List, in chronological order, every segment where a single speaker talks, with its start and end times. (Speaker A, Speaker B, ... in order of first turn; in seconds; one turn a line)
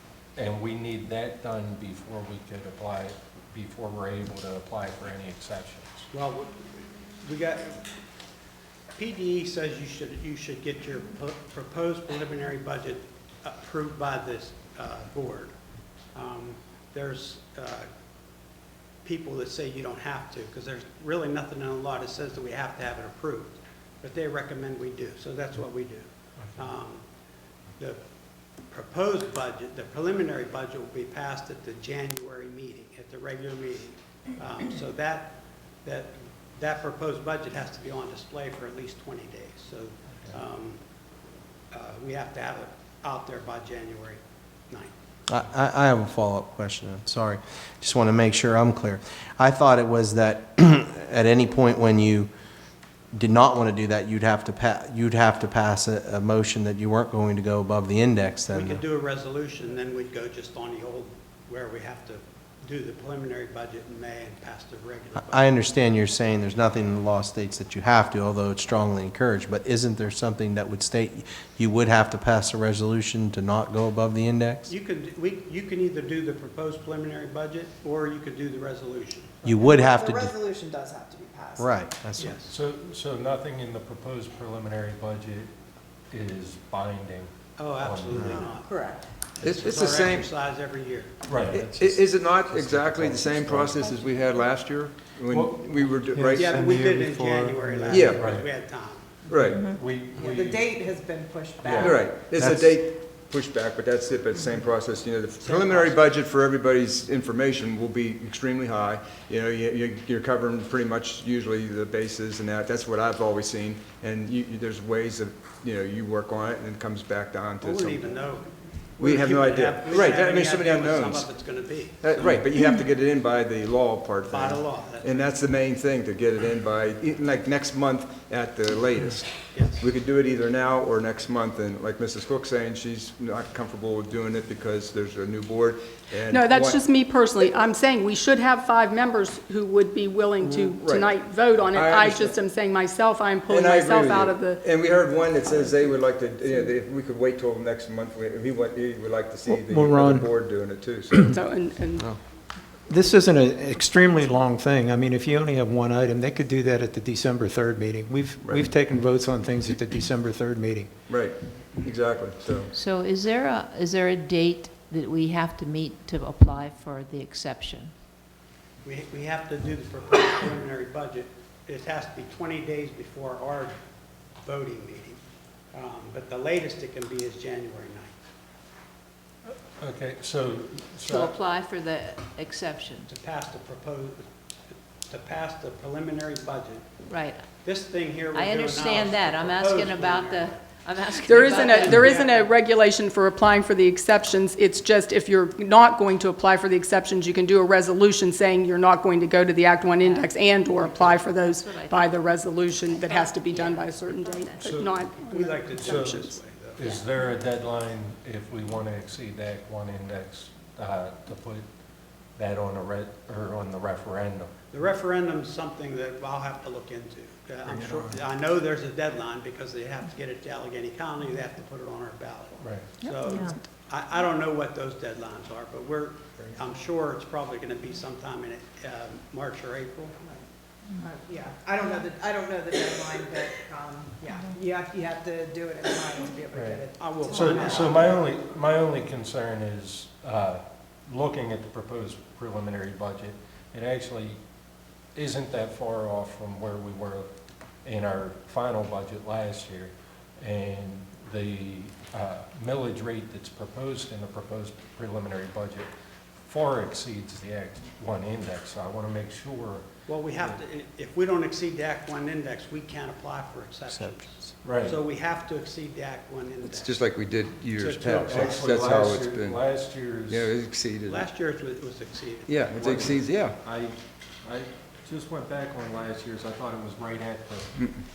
Speaker A: 0.4-6.1
Speaker B: 6.1-7.9
Speaker B: 9.0-15.5
Speaker B: 16.1-17.9
Speaker B: 19.0-27.0
Speaker B: 28.7-40.8
Speaker B: 41.7-44.9
Speaker C: 45.3-52.3
Speaker C: 53.1-58.8
Speaker B: 58.5-65.6
Speaker C: 65.2-74.7
Speaker B: 74.7-79.4
Speaker C: 79.4-80.3
Speaker D: 79.5-81.7
Speaker C: 81.6-82.4
Speaker B: 82.2-82.5
Speaker A: 82.5-85.5
Speaker A: 86.1-88.5
Speaker B: 87.6-88.7
Speaker D: 88.5-89.0
Speaker B: 89.4-91.2
Speaker E: 89.4-90.3
Speaker A: 91.3-93.9
Speaker E: 91.5-96.6
Speaker F: 96.1-98.0
Speaker B: 96.3-99.1
Speaker E: 97.9-98.3
Speaker A: 98.1-98.5
Speaker A: 99.3-100.7
Speaker E: 99.3-99.7
Speaker G: 99.5-99.8
Speaker D: 100.0-102.1
Speaker A: 101.6-102.4
Speaker E: 101.8-118.1
Speaker F: 102.4-102.7
Speaker B: 105.4-106.0
Speaker B: 117.6-122.5
Speaker E: 119.0-121.3
Speaker E: 122.0-136.8
Speaker B: 124.3-125.4
Speaker B: 129.5-129.9
Speaker H: 136.3-144.7
Speaker E: 140.4-142.4
Speaker E: 143.5-151.3
Speaker F: 149.5-150.4
Speaker H: 151.3-152.1
Speaker F: 152.9-160.9
Speaker E: 158.4-158.7
Speaker E: 161.1-162.7
Speaker G: 162.7-167.9
Speaker B: 168.8-173.7
Speaker B: 174.4-175.2
Speaker B: 175.7-178.2
Speaker A: 179.8-181.3
Speaker G: 181.0-183.1
Speaker B: 183.1-184.2
Speaker B: 185.1-186.8
Speaker G: 187.1-187.4
Speaker B: 187.6-190.6
Speaker G: 188.3-192.3
Speaker H: 191.2-206.4
Speaker B: 191.3-192.5
Speaker G: 200.0-202.2
Speaker G: 202.9-204.7
Speaker A: 204.6-204.9
Speaker B: 205.2-206.8
Speaker A: 205.7-206.2
Speaker A: 206.8-211.7
Speaker G: 206.8-207.1
Speaker A: 212.4-214.5
Speaker B: 214.7-230.1
Speaker E: 217.7-218.2
Speaker A: 222.6-222.9
Speaker G: 223.0-223.6
Speaker D: 231.0-238.1
Speaker A: 236.5-244.4
Speaker B: 237.0-238.1
Speaker A: 245.2-247.3
Speaker A: 247.8-255.9
Speaker A: 256.4-259.9
Speaker B: 260.1-267.1
Speaker C: 263.9-264.5
Speaker A: 264.6-265.0
Speaker E: 266.6-269.6
Speaker B: 267.8-268.6
Speaker A: 268.3-270.5
Speaker E: 270.3-271.2
Speaker B: 271.1-273.0
Speaker E: 272.5-273.6
Speaker A: 272.8-277.8